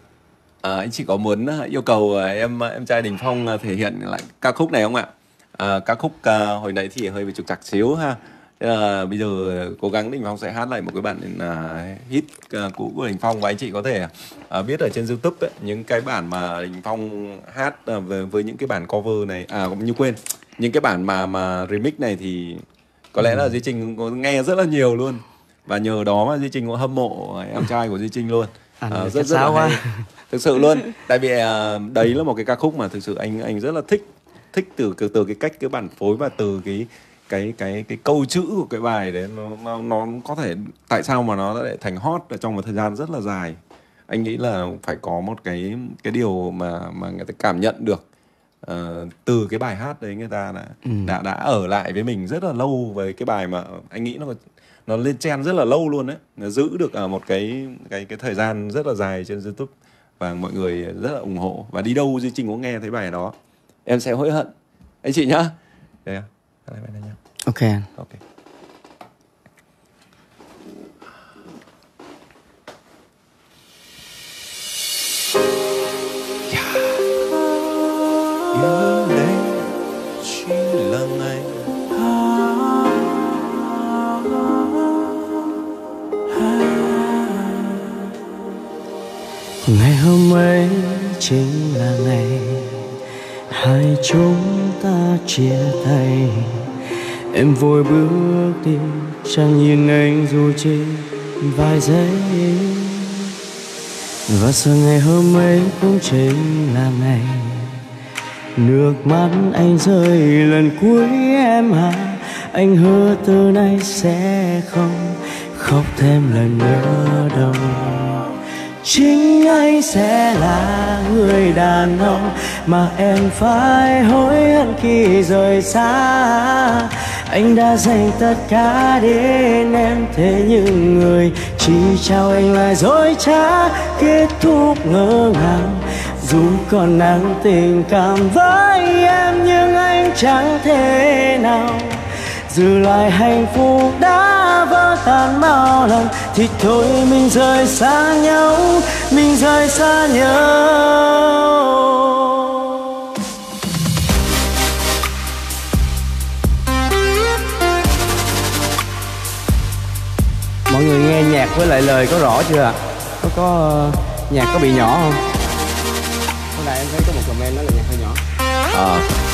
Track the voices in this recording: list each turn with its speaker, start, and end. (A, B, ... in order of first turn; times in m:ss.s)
0:00.6-0:48.0 A
0:28.8-0:30.0 B
0:48.6-1:03.4 A
0:50.8-0:51.1 B
1:03.9-1:04.5 A
1:05.0-1:07.2 A
1:07.5-1:07.9 B
1:16.5-1:17.0 A
1:18.5-1:23.0 A
1:26.5-1:27.9 A
1:29.6-1:32.9 B
1:33.5-1:43.4 B
1:44.3-1:47.9 B
1:48.6-2:32.9 B
2:40.7-2:45.2 B
2:46.6-2:48.2 B
2:48.7-2:49.1 A